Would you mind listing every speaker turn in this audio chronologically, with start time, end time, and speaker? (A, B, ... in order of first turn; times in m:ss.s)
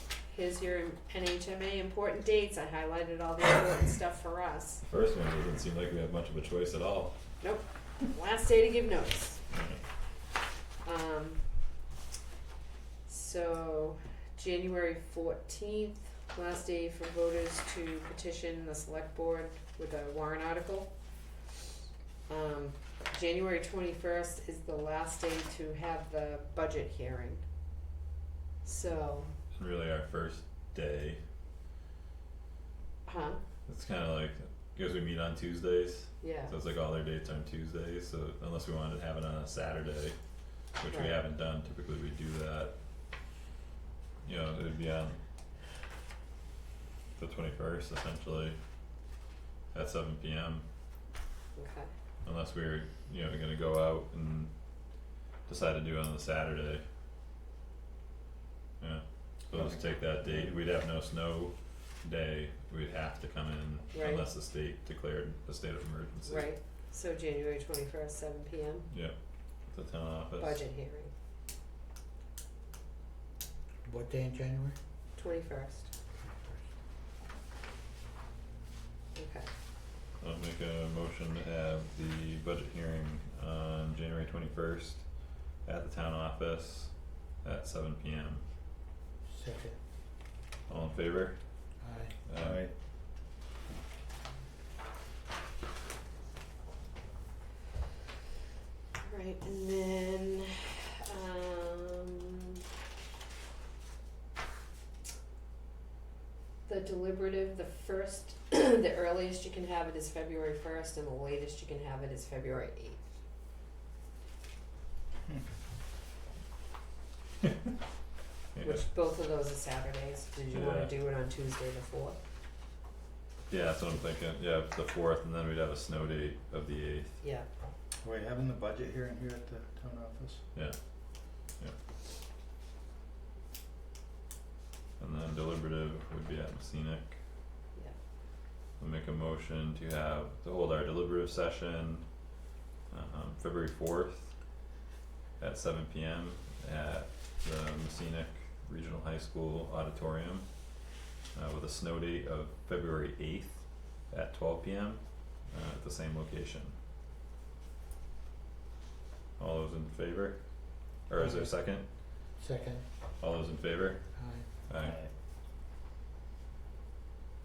0:00.3-0:04.8 A
0:04.9-0:07.2 B
0:07.4-0:09.4 A
0:09.5-0:09.8 B
0:10.8-0:11.4 A
0:13.0-0:20.9 A
0:22.3-0:27.4 A
0:28.6-0:29.3 A
0:29.5-0:31.2 B
0:33.0-0:33.4 A
0:33.7-0:40.2 B
0:36.2-0:36.5 A
0:40.8-0:42.7 B
0:40.9-0:41.1 A
0:44.2-0:45.2 B
0:47.2-0:48.6 B
0:49.7-0:50.6 B
0:51.6-0:51.9 A
0:52.2-0:54.5 B
0:55.4-0:56.8 B
0:58.8-1:06.5 B
0:59.5-1:00.5 C
1:03.9-1:04.2 A
1:06.2-1:08.9 A
1:09.7-1:10.6 B
1:10.4-1:11.1 A
1:13.8-1:14.8 D
1:15.2-1:15.9 A
1:16.2-1:16.5 D
1:19.1-1:19.5 A
1:20.2-1:25.0 B
1:25.6-1:28.4 B
1:29.3-1:29.8 D
1:30.7-1:31.4 B
1:31.8-1:32.1 D
1:32.2-1:32.6 B
1:32.4-1:32.7 C
1:39.0-1:42.3 A
1:46.6-1:53.0 A
1:58.5-1:58.8 B
1:58.6-2:02.2 A
2:00.5-2:00.9 B
2:03.5-2:07.2 B
2:07.2-2:07.4 A
2:08.0-2:10.4 C
2:11.4-2:11.7 B
2:15.0-2:17.2 B
2:18.8-2:22.0 B
2:22.9-2:24.3 B
2:25.4-2:30.5 B
2:31.3-2:36.7 B
2:39.4-2:41.9 B
2:41.2-2:41.8 D
2:42.4-2:42.8 D
2:43.2-2:45.0 B
2:44.2-2:44.5 D
2:44.8-2:45.1 C